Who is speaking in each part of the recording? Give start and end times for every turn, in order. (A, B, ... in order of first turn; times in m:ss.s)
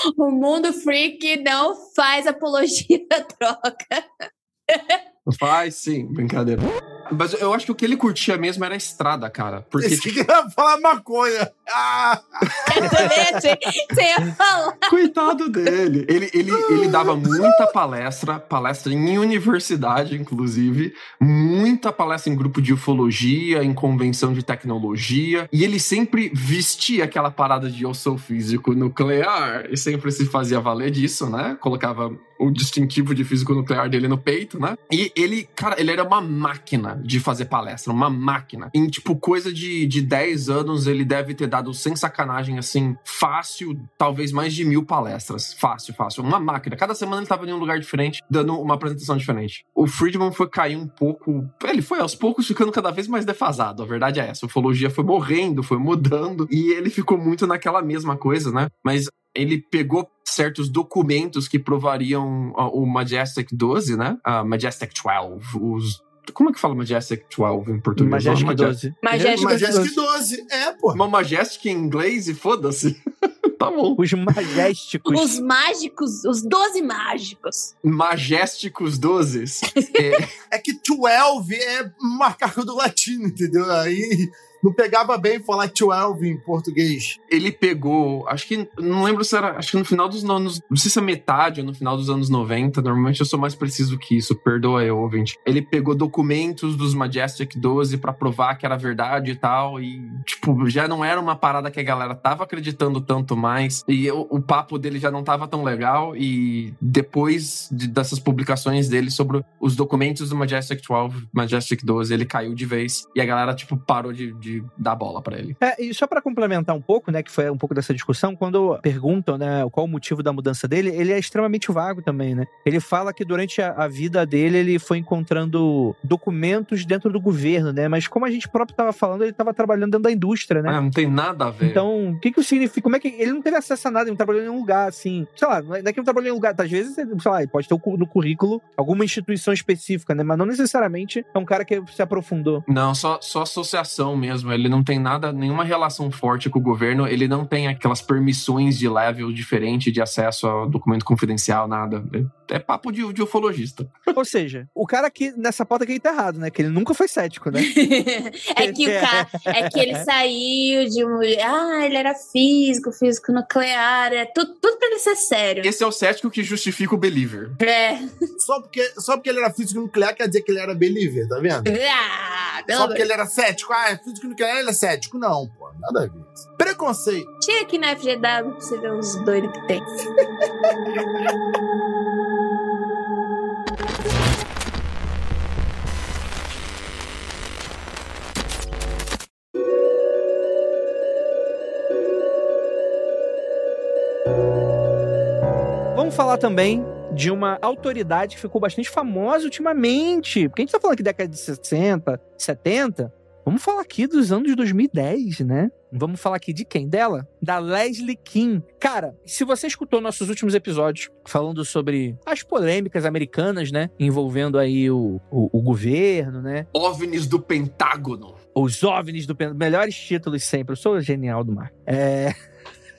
0:00.2-0:05.0 A
0:05.2-0:10.1 B
0:09.8-0:13.4 C
0:12.5-0:13.1 B
0:12.6-0:15.0 A
0:14.9-1:08.7 B
0:16.6-0:17.6 C
1:08.0-1:10.0 D
1:09.0-1:09.8 A
1:09.3-1:11.0 C
1:10.9-1:14.0 B
1:14.0-1:15.4 D
1:15.1-1:17.7 A
1:17.8-1:20.3 B
1:19.8-1:20.2 A
1:20.5-1:27.2 C
1:27.3-1:55.6 B
1:55.6-2:10.8 D
2:10.7-2:11.8 B
2:11.6-2:22.6 D
2:22.7-2:34.1 B
2:34.1-2:37.7 D
2:37.5-2:45.7 A
2:38.6-2:40.1 D
2:45.6-2:47.6 B
2:47.6-2:48.1 A
2:48.4-2:51.7 C
2:51.6-2:53.0 A
2:52.7-2:57.3 C
2:57.4-2:59.8 A
3:15.9-3:36.7 D
3:36.7-3:38.4 B
3:38.6-3:42.3 D